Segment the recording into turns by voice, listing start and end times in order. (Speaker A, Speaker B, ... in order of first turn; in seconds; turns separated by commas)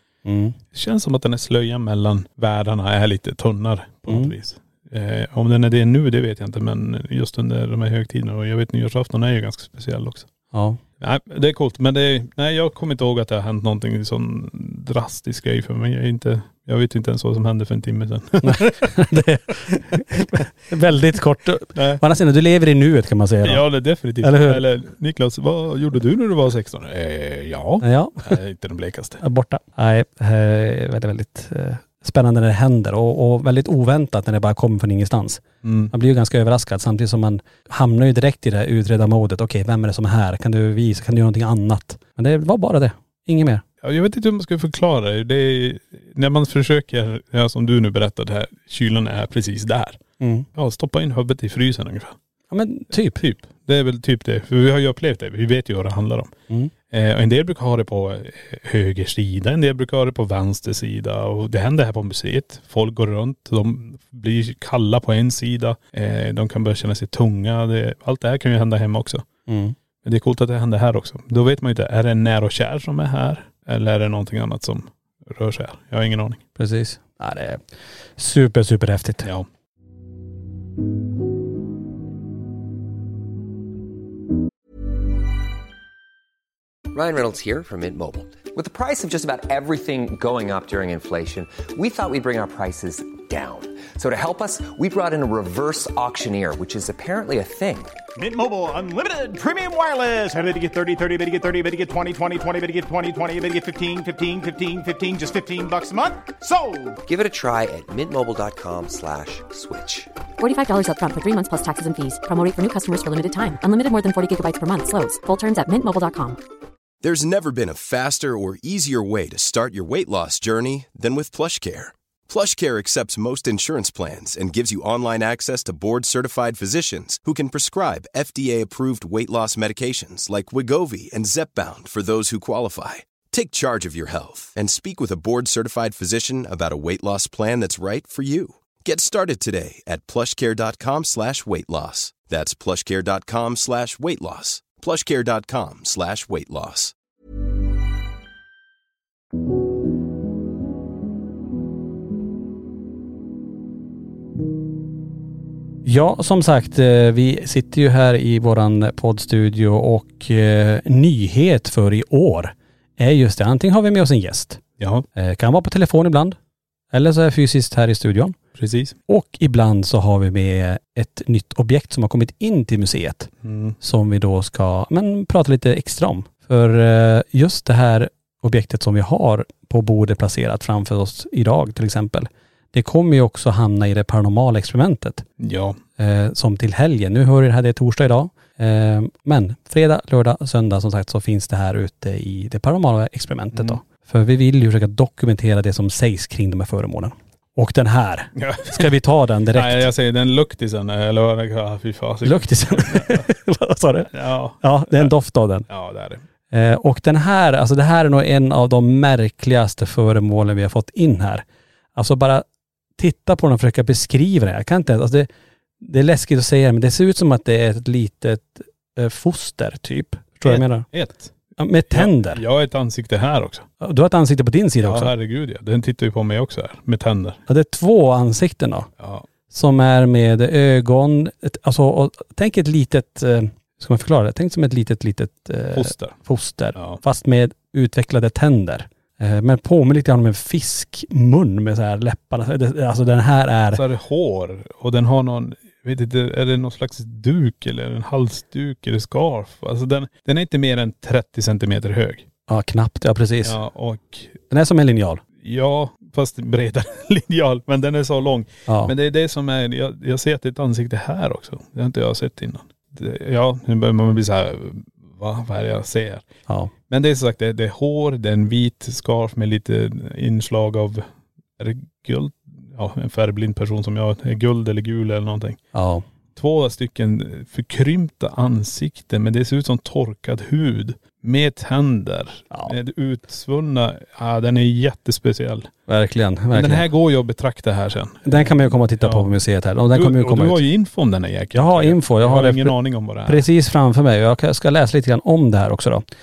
Speaker A: 0.2-0.6, Speaker B: 0.7-10.3, Speaker A: 4.1-4.3, Speaker A: 10.5-10.8, Speaker B: 11.0-19.0, Speaker A: 18.4-23.6, Speaker B: 21.8-22.0, Speaker B: 23.4-29.2, Speaker A: 24.2-24.6, Speaker A: 27.8-28.4, Speaker A: 29.2-43.6, Speaker B: 35.6-35.9, Speaker B: 43.8-50.0, Speaker A: 50.2-50.5, Speaker B: 50.6-52.2, Speaker A: 52.5-53.2, Speaker B: 53.2-56.3, Speaker B: 56.9-69.2, Speaker A: 69.5-69.8, Speaker B: 70.0-76.4, Speaker A: 76.6-77.6, Speaker A: 78.2-79.3, Speaker C: 86.9-98.0, Speaker D: 98.2-107.0, Speaker C: 107.0-110.1, Speaker E: 110.4-116.4, Speaker F: 117.0-146.9, Speaker A: 155.8-164.6, Speaker B: 164.8-165.1, Speaker A: 165.2-166.4, Speaker A: 166.9-168.4, Speaker B: 168.6-169.0, Speaker A: 169.1-185.2, Speaker B: 173.4-173.8, Speaker B: 185.4-185.8, Speaker A: 186.0-199.9, Speaker B: 193.5-193.8, Speaker B: 198.4-198.9, Speaker B: 199.5-203.3, Speaker A: 202.2-205.7, Speaker B: 204.1-205.1, Speaker B: 205.7-206.2, Speaker A: 206.5-212.5, Speaker A: 213.0-215.3, Speaker A: 215.8-220.9, Speaker B: 220.4-221.3, Speaker A: 221.6-222.4, Speaker B: 221.9-223.7, Speaker A: 223.8-225.1, Speaker B: 224.8-227.4, Speaker A: 227.5-228.9, Speaker B: 229.0-229.3, Speaker A: 229.5-243.8, Speaker B: 235.7-236.2, Speaker B: 236.8-237.0, Speaker B: 243.7-252.3, Speaker A: 252.5-253.6, Speaker B: 253.4-254.4, Speaker A: 254.5-255.2, Speaker B: 255.4-266.2, Speaker A: 258.7-258.9, Speaker B: 266.9-271.1, Speaker B: 271.6-275.6, Speaker A: 275.7-276.1, Speaker B: 276.4-285.7, Speaker A: 285.9-286.9, Speaker B: 286.5-289.3, Speaker A: 288.3-290.6, Speaker B: 289.9-293.4, Speaker A: 291.6-296.0